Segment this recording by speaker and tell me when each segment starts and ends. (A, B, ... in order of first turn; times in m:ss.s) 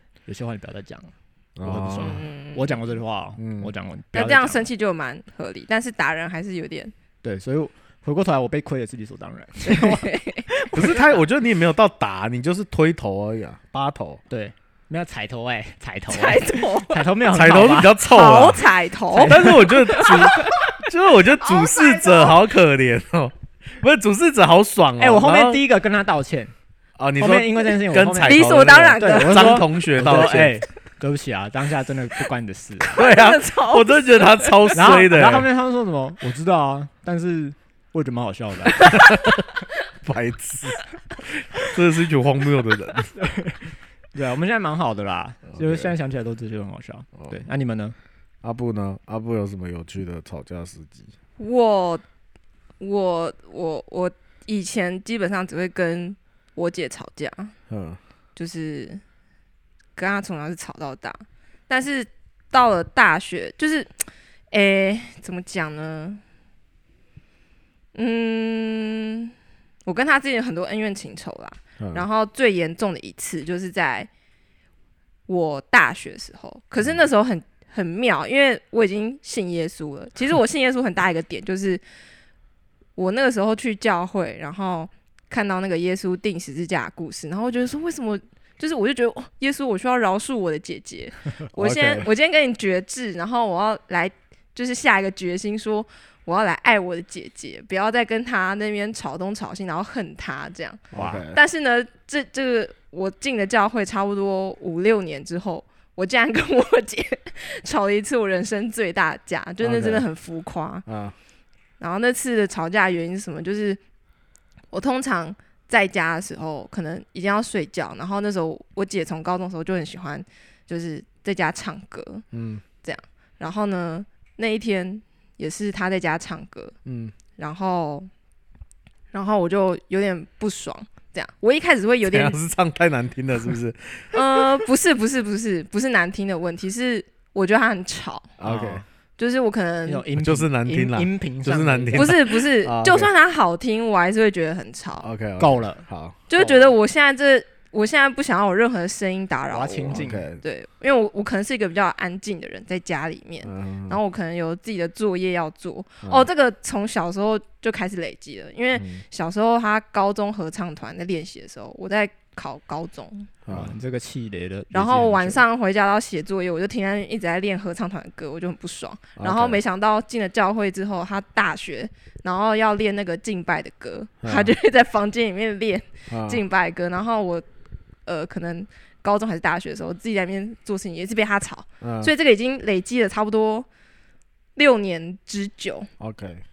0:00.3-0:04.7 A
0:01.6-0:02.2 B
0:02.0-0:02.8 C
0:03.4-0:03.7 B
0:04.1-0:06.9 C
0:07.2-0:10.1 A
0:09.7-0:10.8 C
0:10.7-0:11.0 A
0:10.7-0:14.2 B
0:14.3-0:18.0 A
0:16.1-0:17.0 C
0:17.3-0:25.6 B
0:18.0-0:20.7 C
0:19.1-0:20.1 A
0:21.4-0:22.4 C
0:25.0-0:26.5 A
0:27.0-0:30.6 B
0:27.2-0:33.0 A
0:28.2-0:29.7 C
0:33.0-0:35.5 B
0:33.0-0:34.8 C
0:34.7-0:38.9 A
0:38.8-0:39.2 C
0:38.9-0:39.4 B
0:40.0-0:43.1 B
0:43.2-0:48.0 A
0:45.5-0:45.9 B
0:48.4-0:51.1 B
0:51.4-0:52.0 C
0:52.8-0:57.5 C
0:57.7-0:58.0 B
0:58.4-0:59.0 C
1:00.0-1:06.2 C
1:07.9-1:09.3 C
1:09.9-1:14.1 C
1:11.8-1:12.1 B
1:15.3-1:21.8 C
1:23.0-1:50.8 C
1:31.6-1:32.1 B
1:40.9-1:41.4 B
1:40.9-1:41.2 A
1:49.6-1:50.1 B
1:50.9-1:51.2 B
1:51.8-1:53.8 C
1:54.7-2:02.3 C
2:02.3-2:02.6 B
2:02.8-2:06.8 C
2:06.9-2:07.2 B
2:07.4-2:08.1 C
2:09.1-2:12.4 C
2:12.0-2:14.2 B
2:14.1-2:18.4 C
2:18.4-2:18.8 B
2:18.4-2:18.8 A
2:19.2-2:20.0 C
2:19.9-2:22.2 A
2:20.2-2:23.1 B
2:22.0-2:25.1 C
2:25.0-2:26.6 B
2:25.4-2:25.9 A
2:26.3-2:43.3 C
2:29.5-2:30.3 A
2:29.9-2:30.4 B
2:33.4-2:34.0 B
2:38.8-2:39.0 B
2:43.5-2:43.7 B
2:43.5-2:45.4 A
2:44.7-2:57.4 C
2:49.2-2:49.6 B
2:54.2-2:54.5 B
2:56.1-2:56.4 B
2:58.1-3:03.7 C
3:01.8-3:02.1 B
3:04.6-3:05.9 C
3:06.0-3:06.4 B